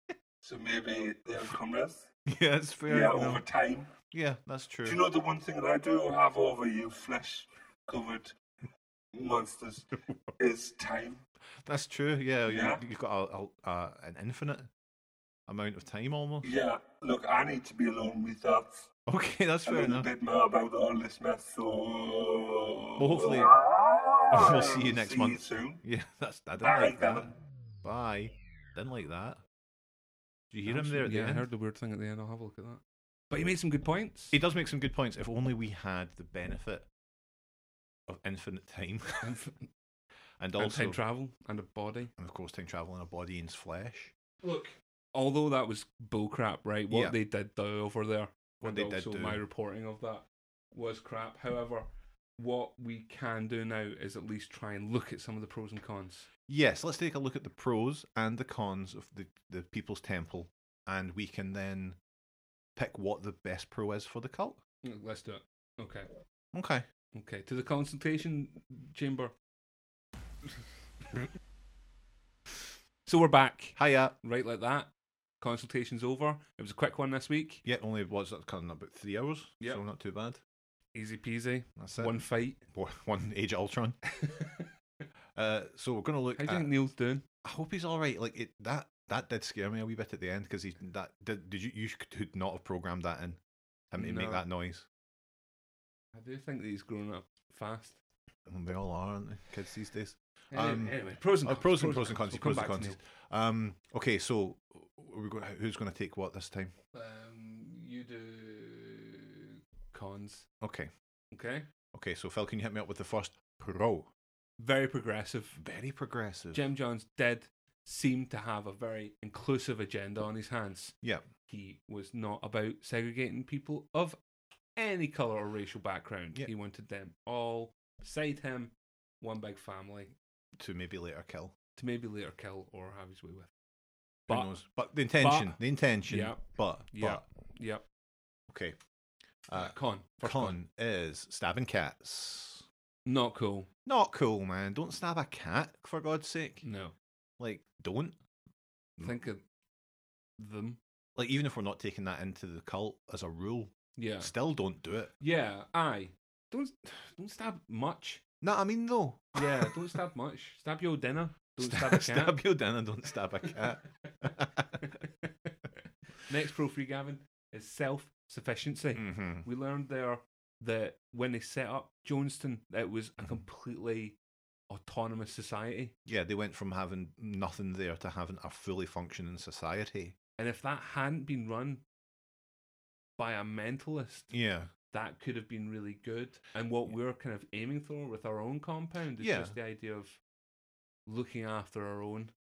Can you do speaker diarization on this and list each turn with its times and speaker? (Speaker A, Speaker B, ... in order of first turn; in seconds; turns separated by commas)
Speaker A: 0.4-2.1, Speaker B: 2.3-3.4, Speaker A: 2.9-3.9, Speaker B: 4.1-5.0, Speaker A: 4.8-8.3, Speaker A: 9.1-11.2, Speaker B: 11.6-14.7, Speaker A: 12.5-12.8, Speaker B: 15.5-16.5, Speaker A: 16.4-18.9, Speaker B: 19.1-20.1, Speaker A: 19.6-25.8, Speaker B: 23.0-23.5, Speaker B: 24.3-27.3, Speaker A: 26.6-27.4, Speaker B: 27.8-29.4, Speaker B: 30.5-31.5, Speaker C: 30.6-34.4, Speaker B: 34.3-36.9, Speaker B: 38.1-39.4, Speaker C: 39.2-39.7, Speaker B: 40.4-41.0, Speaker C: 40.5-42.1, Speaker B: 42.2-44.1, Speaker C: 44.4-56.3, Speaker B: 46.9-47.1, Speaker B: 48.6-49.4, Speaker B: 56.5-62.0, Speaker B: 62.8-64.6, Speaker C: 64.8-66.1, Speaker B: 66.5-66.8, Speaker C: 67.1-69.3, Speaker C: 73.0-74.9, Speaker B: 73.8-74.1, Speaker C: 75.4-77.6, Speaker B: 77.6-80.4, Speaker C: 80.9-82.6, Speaker B: 81.8-82.2, Speaker B: 82.7-84.0, Speaker C: 84.1-84.7, Speaker B: 85.3-86.7, Speaker C: 86.3-87.2, Speaker B: 87.4-93.4, Speaker B: 93.9-94.8, Speaker C: 94.0-94.4, Speaker C: 96.1-98.0, Speaker B: 98.5-106.7, Speaker C: 100.5-103.0, Speaker C: 106.9-110.5, Speaker B: 110.6-110.9, Speaker C: 111.3-111.7, Speaker B: 111.9-114.1, Speaker C: 114.6-115.6, Speaker B: 115.6-116.6, Speaker C: 116.5-120.9, Speaker C: 121.5-124.2, Speaker C: 124.8-130.1, Speaker B: 130.6-131.5, Speaker C: 131.8-133.5, Speaker C: 134.3-134.5, Speaker B: 134.3-137.2, Speaker C: 135.1-137.8, Speaker B: 138.5-138.8, Speaker B: 139.5-142.6, Speaker C: 139.5-140.6, Speaker C: 143.1-143.7, Speaker B: 143.8-146.6, Speaker C: 146.6-146.9, Speaker B: 147.4-148.2, Speaker C: 149.0-149.4, Speaker C: 150.4-150.8, Speaker B: 151.2-155.1, Speaker C: 153.9-154.3, Speaker C: 155.2-158.2, Speaker B: 158.4-159.8, Speaker C: 159.3-162.4, Speaker B: 161.6-164.7, Speaker C: 164.8-165.5, Speaker C: 166.2-174.2, Speaker B: 168.9-169.4, Speaker C: 174.7-175.9, Speaker B: 176.1-180.2, Speaker C: 180.4-181.8, Speaker C: 183.2-184.3, Speaker B: 184.3-184.7, Speaker C: 184.9-190.2, Speaker B: 189.2-189.6, Speaker C: 191.1-192.3